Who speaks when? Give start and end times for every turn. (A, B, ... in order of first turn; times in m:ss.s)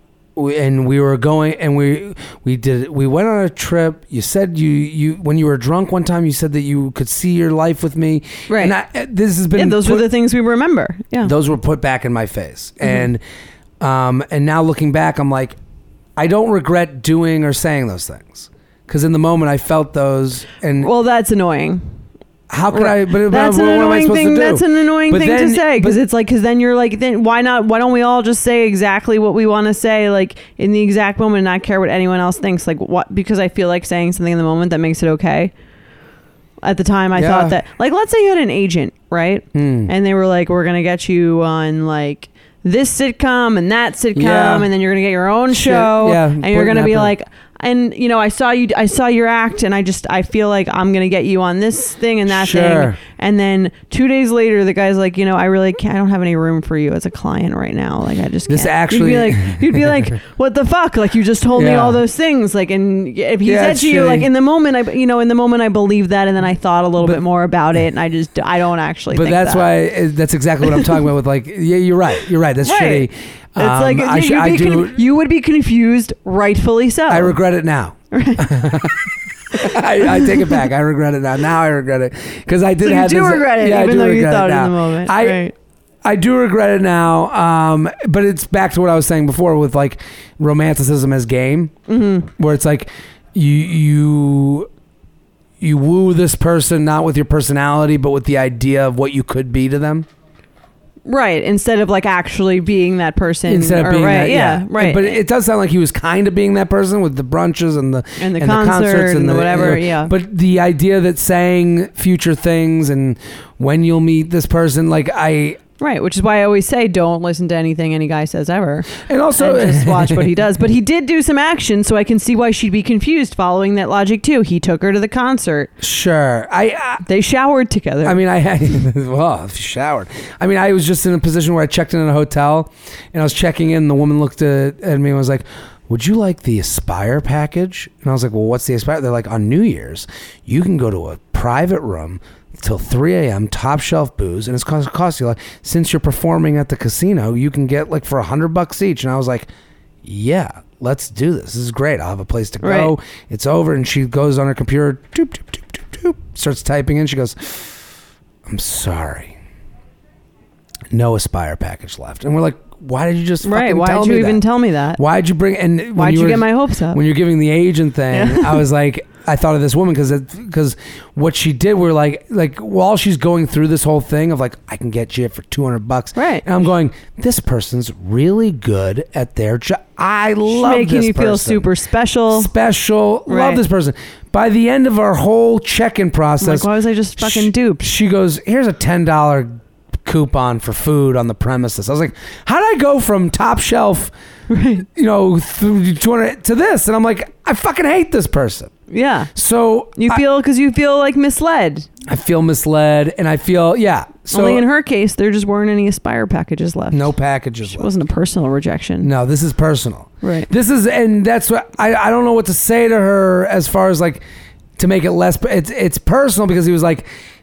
0:00.4-0:10.0 A
0:08.5-0:08.7 B
0:09.6-0:11.3 B
0:11.2-0:13.2 A
0:13.8-0:15.6 A
0:16.2-0:20.9 A
0:20.8-0:21.8 B
0:22.5-0:26.0 A
0:22.7-0:35.5 B
0:36.6-1:09.7 B
0:37.1-0:37.6 A
0:39.5-0:39.9 A
0:44.1-0:44.7 A
0:45.5-0:47.1 A
0:52.3-0:53.0 A
0:58.5-1:00.1 A
1:01.6-1:02.0 A
1:03.4-1:04.3 A
1:09.1-1:15.0 A
1:10.6-1:11.0 B
1:12.6-1:13.1 B
1:13.6-1:17.4 B
1:17.1-1:25.4 A
1:18.1-1:18.5 B
1:19.6-1:20.6 B
1:22.8-1:25.5 B
1:26.0-1:31.7 A
1:31.9-1:32.3 B
1:32.4-1:34.7 A
1:35.6-1:40.1 A
1:41.0-1:45.2 B
1:43.5-1:55.6 A
1:48.2-1:50.1 B
1:55.8-2:05.7 B
1:59.0-2:00.4 A
2:05.8-2:07.0 A
2:07.0-2:08.2 B
2:08.0-2:29.5 A
2:30.0-2:37.9 A
2:32.6-2:33.0 B
2:38.4-2:39.4 A
2:40.9-2:44.4 A
2:43.4-2:45.0 B
2:45.0-3:01.7 A
2:46.0-2:47.0 B
2:48.1-2:48.6 B
2:56.2-2:56.4 B
3:00.5-3:02.5 B
3:02.3-3:14.1 A
3:03.3-3:03.6 B
3:06.4-3:07.8 B
3:14.5-3:14.9 B
3:15.0-3:18.7 A
3:18.9-3:19.3 B
3:19.4-3:20.2 A
3:20.0-3:21.9 B
3:22.0-3:24.6 A
3:24.3-3:27.1 B
3:26.9-3:27.9 A
3:27.7-3:29.1 B
3:29.0-3:34.2 A
3:30.2-3:30.5 B
3:34.8-3:37.1 A